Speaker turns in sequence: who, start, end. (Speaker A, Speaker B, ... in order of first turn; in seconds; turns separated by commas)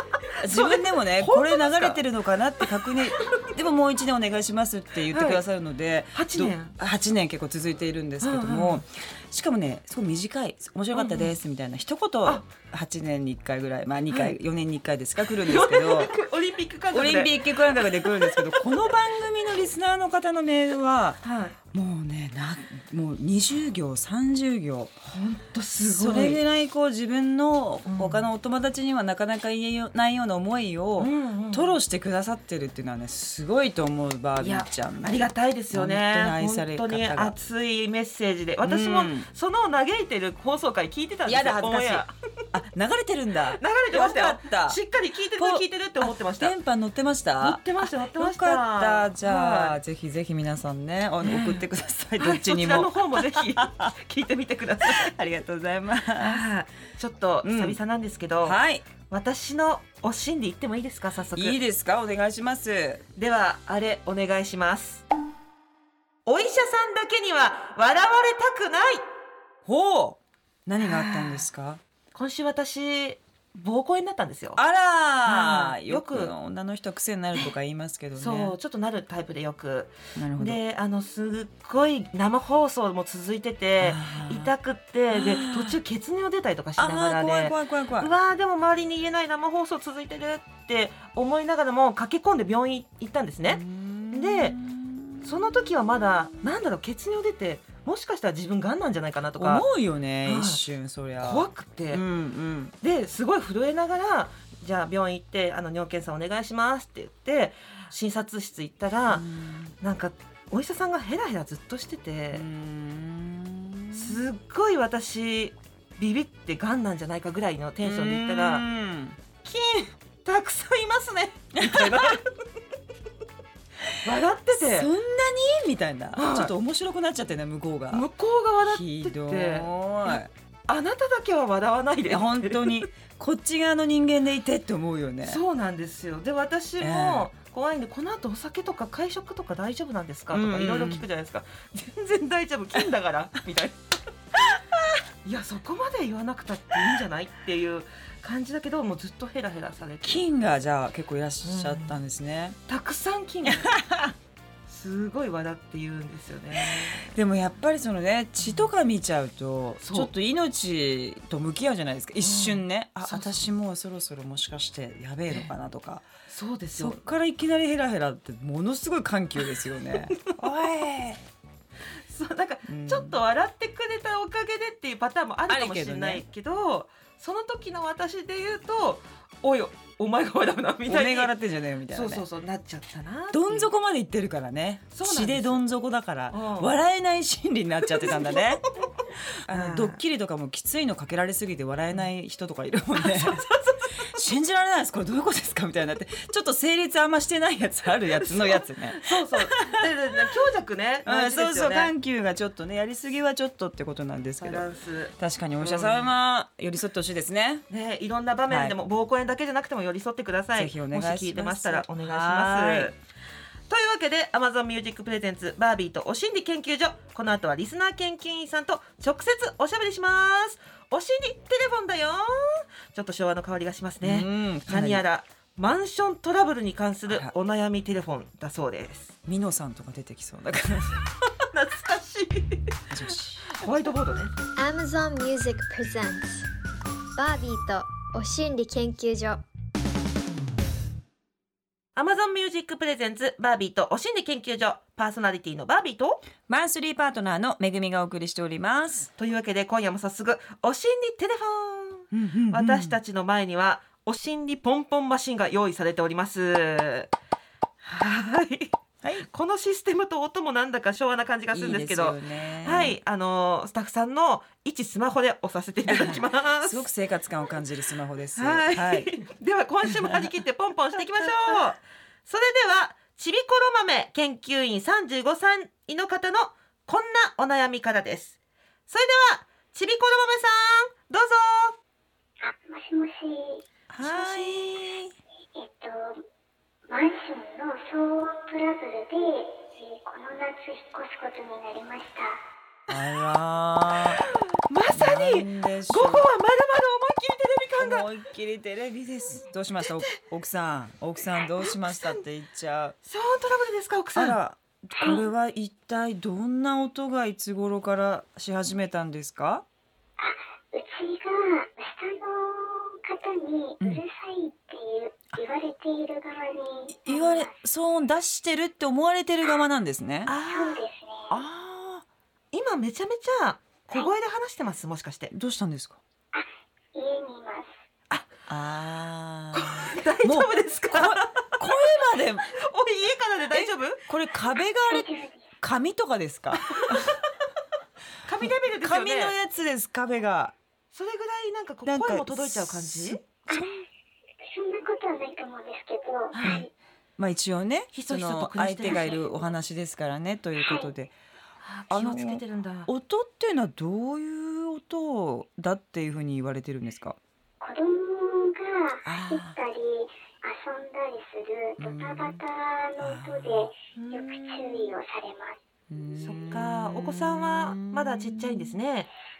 Speaker A: 0.3-2.0, Speaker B: 0.4-16.1, Speaker A: 2.8-3.5, Speaker A: 5.1-5.4, Speaker A: 6.1-6.7, Speaker A: 8.2-8.8, Speaker A: 10.9-11.3, Speaker A: 14.1-14.4, Speaker A: 15.3-18.7, Speaker B: 16.9-24.9, Speaker A: 21.2-21.6, Speaker A: 25.1-26.4, Speaker B: 25.8-37.3, Speaker A: 27.9-28.3, Speaker A: 31.0-31.8, Speaker A: 34.4-42.1, Speaker B: 38.6-39.3, Speaker B: 41.2-44.8, Speaker A: 43.5-46.5, Speaker B: 45.4-53.9, Speaker A: 47.4-49.8, Speaker A: 51.2-51.6, Speaker A: 52.2-55.1, Speaker B: 54.8-56.4, Speaker A: 56.2-61.6, Speaker B: 57.4-57.8, Speaker B: 58.4-58.9, Speaker B: 61.4-63.0, Speaker A: 63.1-65.0, Speaker A: 66.2-69.1, Speaker A: 69.7-70.2, Speaker B: 70.7-71.8, Speaker A: 70.8-71.5, Speaker A: 72.1-74.6, Speaker B: 74.6-78.5, Speaker A: 75.2-76.3, Speaker A: 78.1-94.6, Speaker B: 80.2-80.6, Speaker B: 83.8-84.5, Speaker B: 85.1-85.8, Speaker B: 86.8-88.1, Speaker B: 93.5-95.7, Speaker A: 95.2-99.7, Speaker B: 99.3-102.7, Speaker A: 100.2-100.6, Speaker A: 101.2-102.0, Speaker A: 102.8-109.2, Speaker B: 109.1-109.7, Speaker A: 109.8-112.5, Speaker B: 112.3-114.2, Speaker A: 113.9-118.7, Speaker B: 117.8-119.2, Speaker A: 119.4-122.3, Speaker B: 121.6-122.2, Speaker A: 124.0-124.9, Speaker B: 124.5-128.1, Speaker A: 126.2-126.5, Speaker A: 127.9-132.9, Speaker B: 128.6-130.3, Speaker B: 132.1-135.4, Speaker A: 135.2-143.8, Speaker B: 136.8-137.3, Speaker B: 140.3-141.1, Speaker B: 144.4-144.8, Speaker A: 145.2-150.2, Speaker B: 150.0-152.6, Speaker A: 151.4-152.0, Speaker A: 152.7-153.8, Speaker B: 153.4-154.1, Speaker A: 154.7-157.2, Speaker B: 156.6-166.1, Speaker A: 158.4-158.7, Speaker A: 159.8-160.1, Speaker A: 162.2-163.5, Speaker A: 166.3-167.0, Speaker B: 166.8-171.2, Speaker A: 172.1-181.3, Speaker B: 172.7-173.2, Speaker B: 175.5-176.2, Speaker B: 180.9-182.2, Speaker A: 181.9-183.7, Speaker B: 183.3-188.7, Speaker A: 184.9-185.6, Speaker A: 186.3-186.7, Speaker A: 187.9-188.6, Speaker B: 189.2-193.4, Speaker A: 189.5-190.0, Speaker A: 192.9-194.2, Speaker B: 193.9-199.8, Speaker A: 198.2-201.9, Speaker B: 201.1-204.6, Speaker A: 204.4-206.1, Speaker B: 205.2-207.6, Speaker A: 207.7-213.0, Speaker B: 208.5-208.8, Speaker B: 210.5-212.9, Speaker A: 213.7-229.2, Speaker B: 224.0-225.0, Speaker B: 229.2-231.0, Speaker A: 231.4-234.3, Speaker B: 232.9-233.5, Speaker C: 234.6-236.5, Speaker C: 237.2-239.4, Speaker A: 241.9-246.2, Speaker B: 246.5-249.1, Speaker A: 249.2-257.1, Speaker B: 252.1-253.0, Speaker A: 257.8-266.9, Speaker B: 261.5-263.0, Speaker B: 265.9-269.1, Speaker A: 268.3-278.4, Speaker B: 270.0-270.3, Speaker A: 278.9-281.8, Speaker D: 282.4-283.6, Speaker B: 283.9-285.1, Speaker A: 284.0-284.7, Speaker D: 285.5-286.2, Speaker D: 286.9-292.4, Speaker B: 292.9-294.2, Speaker A: 294.1-298.1, Speaker B: 294.9-296.3, Speaker B: 297.8-302.9, Speaker A: 301.4-302.2, Speaker A: 303.1-304.4, Speaker B: 304.1-309.6, Speaker D: 310.2-317.5, Speaker B: 316.9-320.3, Speaker A: 320.2-320.8, Speaker D: 320.4-321.4, Speaker B: 321.3-322.1, Speaker A: 322.5-325.3, Speaker B: 325.3-326.0, Speaker D: 326.3-327.7, Speaker B: 328.5-332.5, Speaker A: 329.5-331.5, Speaker A: 332.5-334.0, Speaker B: 333.5-335.1, Speaker D: 334.9-335.5, Speaker B: 335.6-337.1, Speaker A: 336.5-337.2, Speaker A: 338.2-339.3, Speaker B: 338.8-340.5, Speaker A: 340.9-343.2, Speaker B: 341.9-343.8, Speaker D: 344.4-346.7, Speaker A: 346.3-346.6, Speaker B: 347.2-351.1, Speaker A: 347.9-349.3, Speaker D: 350.6-350.9, Speaker A: 351.6-352.9, Speaker B: 351.9-357.2, Speaker D: 357.6-365.6, Speaker B: 359.0-359.6, Speaker B: 361.8-362.4, Speaker B: 363.0-363.7, Speaker A: 363.9-364.9, Speaker B: 365.9-368.8, Speaker A: 366.1-369.1